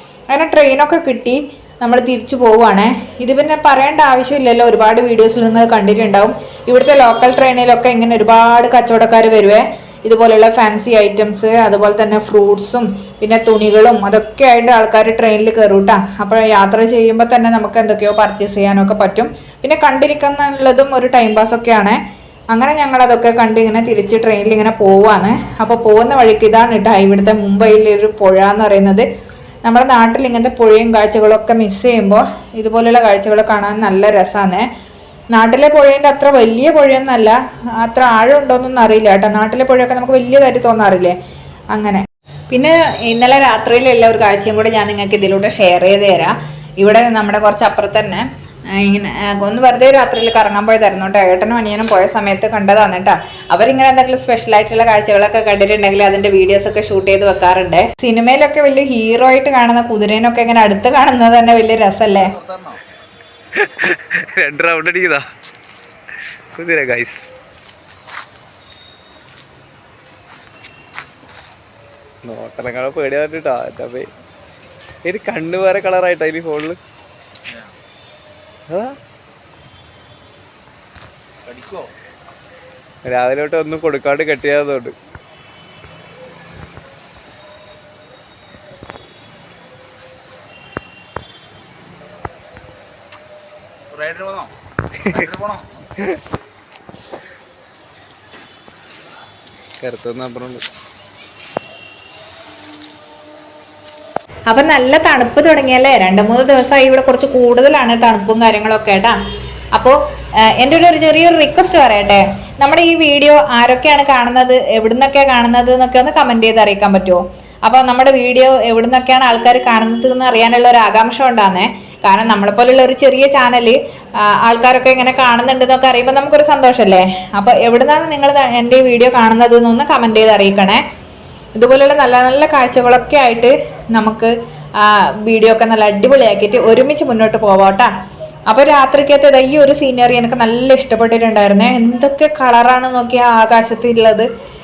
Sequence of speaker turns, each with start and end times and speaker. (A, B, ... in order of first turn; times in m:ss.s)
0:00.3-0:22.0 A
0:22.5-0:29.1 A
0:29.6-0:34.7 A
0:35.3-0:41.2 A
0:41.7-1:02.4 A
1:02.4-1:02.8 B
1:03.6-1:05.2 C
1:06.6-1:07.4 C
1:12.2-1:14.1 C
1:15.0-1:16.8 C
1:18.7-1:19.0 C
1:21.5-1:21.9 B
1:23.1-1:25.0 C
1:33.9-1:34.5 B
1:35.1-1:35.8 B
1:39.8-1:40.6 C
1:44.5-1:49.2 A
1:49.8-2:10.8 A
2:11.6-2:17.9 A
2:18.5-2:24.3 A